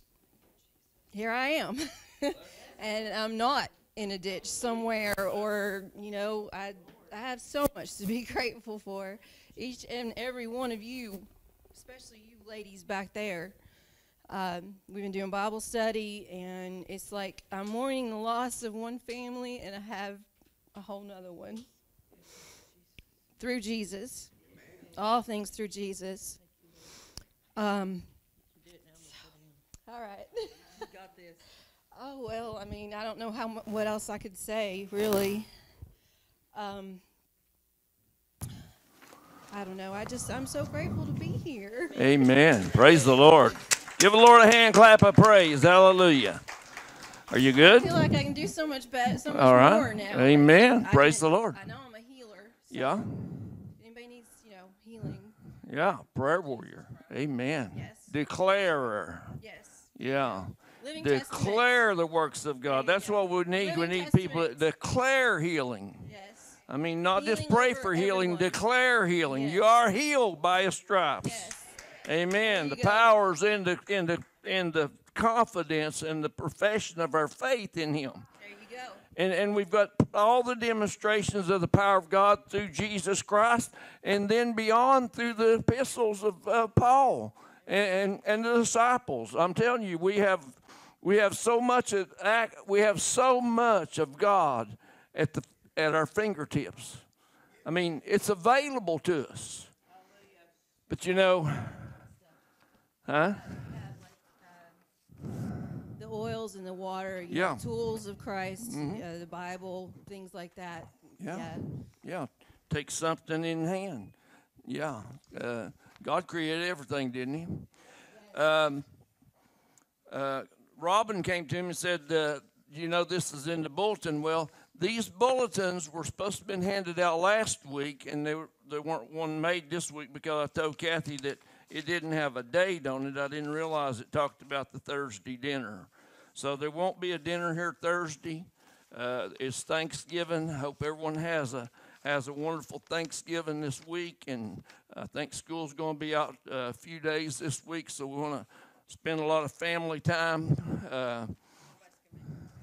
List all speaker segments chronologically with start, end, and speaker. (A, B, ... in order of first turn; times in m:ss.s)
0:01.1-0:13.6 A
0:14.3-0:21.7 A
0:23.4-0:24.3 A
0:24.9-0:26.4 A
0:26.4-0:26.9 B
0:27.6-0:28.1 A
0:28.5-0:29.6 B
0:29.9-0:30.6 A
0:30.7-0:31.5 B
0:31.9-0:35.5 A
0:36.5-0:37.0 A
0:39.5-0:42.3 A
0:41.9-0:46.4 C
0:42.8-0:43.1 A
0:47.3-0:48.0 C
0:47.6-0:53.2 A
0:49.2-0:51.6 C
0:52.7-0:53.3 C
0:53.8-0:55.4 A
0:55.6-0:59.4 C
0:57.7-0:58.1 A
0:59.4-1:00.0 A
1:00.0-1:06.1 C
1:00.8-1:01.6 A
1:02.7-1:04.6 A
1:06.0-1:06.6 A
1:06.7-1:11.5 C
1:07.1-1:08.6 A
1:09.3-1:09.6 A
1:11.2-1:11.7 A
1:12.0-1:18.2 C
1:12.4-1:13.1 A
1:18.4-1:19.0 A
1:19.1-1:37.0 C
1:37.6-1:39.7 C
1:40.9-1:42.0 C
1:43.0-1:43.8 C
1:46.0-1:51.7 A
1:47.3-1:47.7 C
1:48.6-1:49.0 C
1:51.2-1:54.1 C
1:54.6-1:57.7 C
1:58.2-1:58.9 C
2:00.1-2:31.3 C